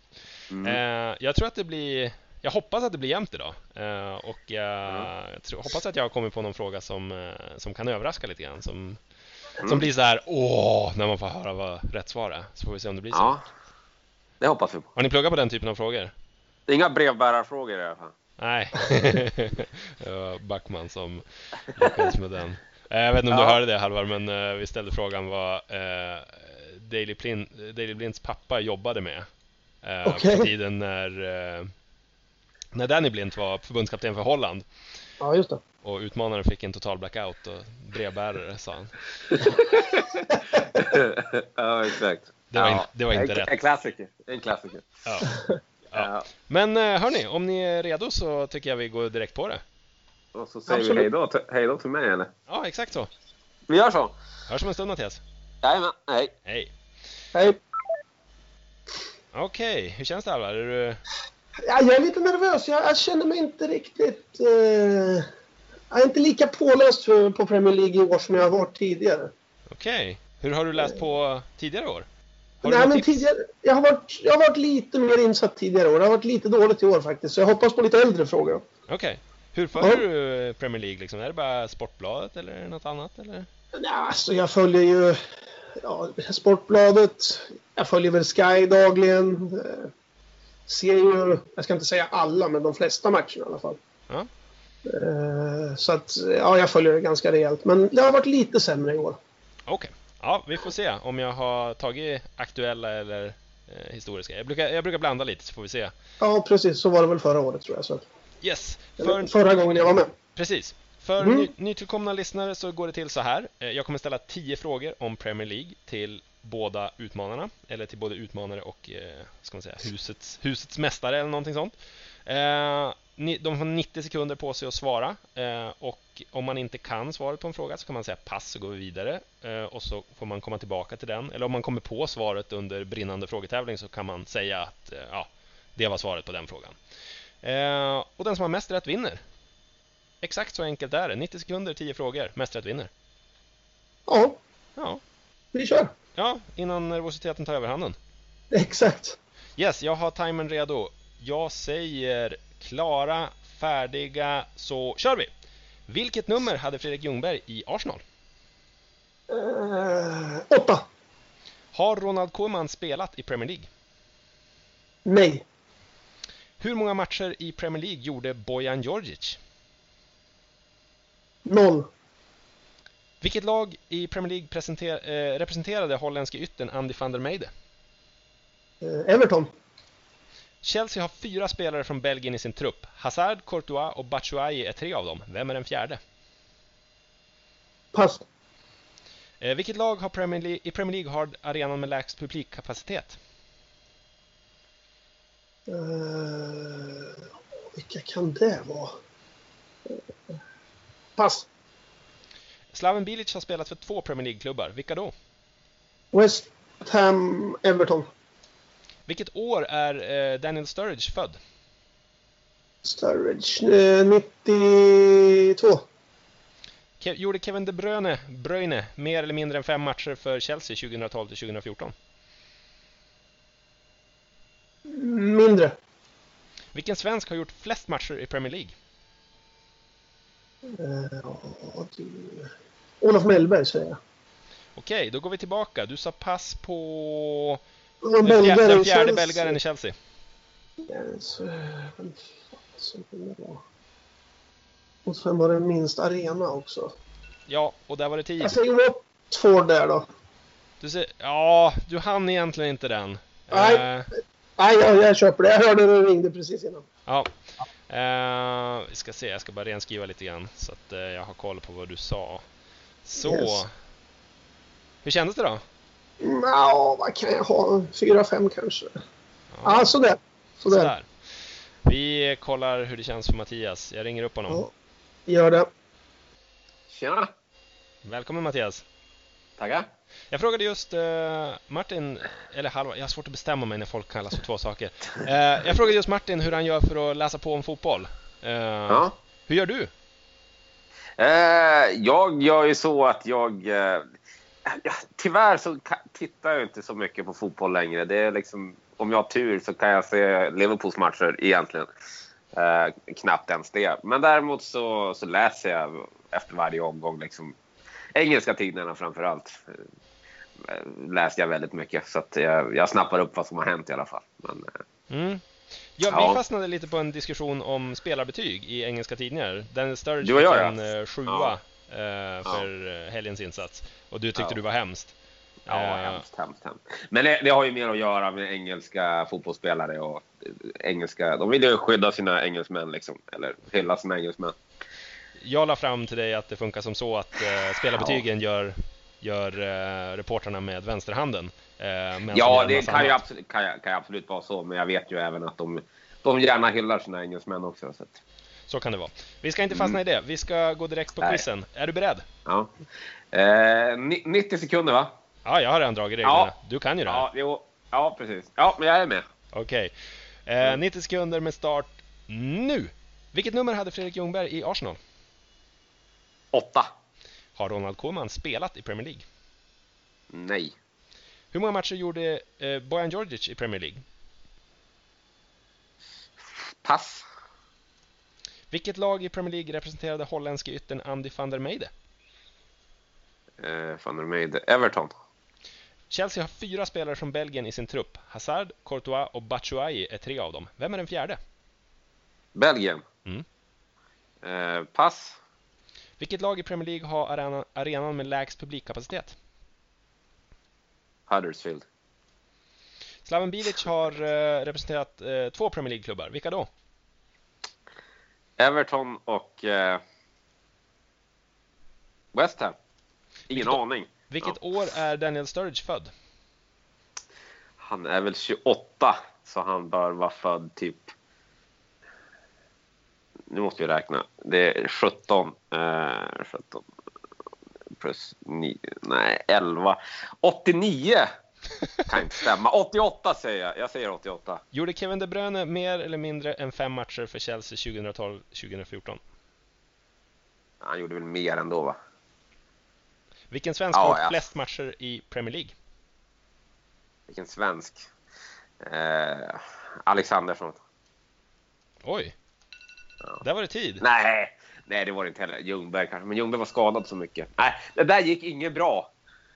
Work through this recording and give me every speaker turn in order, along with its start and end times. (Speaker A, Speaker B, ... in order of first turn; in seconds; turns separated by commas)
Speaker A: 0.5-0.8, Speaker B: 0.6-9.0, Speaker B: 9.6-13.3, Speaker A: 13.1-13.4, Speaker A: 14.4-14.9, Speaker B: 14.9-16.1, Speaker A: 16.7-18.1, Speaker B: 18.4-29.2, Speaker A: 23.3-23.6, Speaker B: 29.8-31.7, Speaker C: 30.0-30.5, Speaker B: 32.7-34.6, Speaker C: 35.2-35.6, Speaker B: 35.8-38.9, Speaker A: 39.3-44.9, Speaker B: 42.5-43.5, Speaker B: 45.0-45.3, Speaker B: 45.9-49.6, Speaker A: 45.9-46.2, Speaker A: 50.3-52.3, Speaker C: 50.7-51.1, Speaker B: 52.5-53.1, Speaker A: 53.7-54.1, Speaker B: 54.5-55.2, Speaker A: 55.6-56.3, Speaker B: 56.5-56.7, Speaker B: 59.3-61.0, Speaker C: 61.6-65.2, Speaker C: 65.9-69.3, Speaker B: 69.7-72.0, Speaker B: 72.6-73.2, Speaker C: 72.6-78.6, Speaker B: 78.9-83.5, Speaker C: 79.8-80.0, Speaker C: 83.7-85.2, Speaker C: 85.8-89.9, Speaker C: 90.7-93.8, Speaker C: 94.8-99.2, Speaker B: 99.7-105.9, Speaker C: 106.2-108.0, Speaker B: 108.4-109.3, Speaker C: 109.0-110.1, Speaker B: 110.3-136.8, Speaker C: 111.2-111.5, Speaker B: 137.4-139.2, Speaker B: 140.2-142.9, Speaker C: 144.1-144.4, Speaker C: 145.5-145.9, Speaker B: 146.2-147.9, Speaker C: 148.5-149.2, Speaker B: 149.6-155.3, Speaker B: 155.9-158.0, Speaker C: 159.3-160.8, Speaker B: 161.7-163.7, Speaker C: 165.1-165.4, Speaker B: 166.6-169.4, Speaker C: 171.4-171.9, Speaker B: 173.2-177.5, Speaker C: 178.8-179.5, Speaker B: 180.6-186.0, Speaker C: 187.9-188.2, Speaker B: 189.4-193.2, Speaker C: 195.7-197.2, Speaker C: 197.8-198.9, Speaker C: 201.2-201.5, Speaker B: 202.7-205.1, Speaker C: 206.1-208.1, Speaker B: 209.1-211.4, Speaker C: 212.8-215.8, Speaker B: 217.0-221.9, Speaker C: 224.9-225.8, Speaker B: 226.7-228.8, Speaker C: 230.8-232.5, Speaker C: 233.0-234.0, Speaker B: 234.7-237.6, Speaker C: 238.0-239.6, Speaker B: 238.2-239.9, Speaker C: 240.9-243.6, Speaker C: 245.1-246.9, Speaker B: 247.5-248.6, Speaker C: 248.4-250.1, Speaker B: 250.8-254.1, Speaker C: 253.5-256.8, Speaker B: 257.9-262.4, Speaker B: 263.0-263.7, Speaker C: 263.2-263.6, Speaker B: 265.0-265.6, Speaker C: 266.2-268.9, Speaker B: 269.5-269.9, Speaker C: 269.6-270.9, Speaker B: 270.7-271.1, Speaker B: 271.8-274.6, Speaker C: 275.3-275.7, Speaker A: 276.9-277.3, Speaker B: 278.0-278.8, Speaker A: 279.6-279.9, Speaker B: 280.3-289.9, Speaker A: 288.9-289.1, Speaker A: 291.2-294.0, Speaker A: 294.6-301.9, Speaker A: 302.5-307.6, Speaker A: 308.1-309.8, Speaker A: 310.6-314.7, Speaker B: 315.1-315.4, Speaker B: 316.0-325.1, Speaker A: 316.1-316.4, Speaker A: 320.2-321.5, Speaker B: 325.7-326.2, Speaker A: 325.7-334.5, Speaker B: 335.4-343.2, Speaker A: 337.9-338.2, Speaker A: 342.3-348.2, Speaker B: 348.7-352.2, Speaker A: 349.7-350.0, Speaker A: 352.4-352.7, Speaker A: 353.3-355.1, Speaker B: 355.4-357.2, Speaker A: 356.2-356.5, Speaker A: 357.1-359.2, Speaker B: 359.5-359.9, Speaker B: 360.4-365.0, Speaker A: 366.5-366.9, Speaker B: 367.6-369.2, Speaker A: 370.3-370.7, Speaker B: 371.5-374.0, Speaker A: 376.8-377.2, Speaker B: 378.7-381.9, Speaker A: 383.6-385.1, Speaker B: 386.1-391.4, Speaker A: 392.6-393.0, Speaker A: 394.4-395.4, Speaker B: 396.2-399.4, Speaker A: 401.3-401.8, Speaker B: 403.2-406.7, Speaker A: 408.6-410.0, Speaker A: 412.3-412.7, Speaker A: 413.5-414.6, Speaker B: 413.5-413.8, Speaker B: 414.3-416.1, Speaker A: 417.8-421.1, Speaker A: 423.5-426.8, Speaker A: 428.0-431.2, Speaker A: 432.1-434.6, Speaker B: 434.7-439.2, Speaker A: 440.8-442.0, Speaker B: 443.5-445.7, Speaker A: 443.9-444.4, Speaker A: 447.3-448.0, Speaker A: 448.8-450.8, Speaker B: 452.0-452.3, Speaker B: 453.4-454.0, Speaker A: 454.0-459.1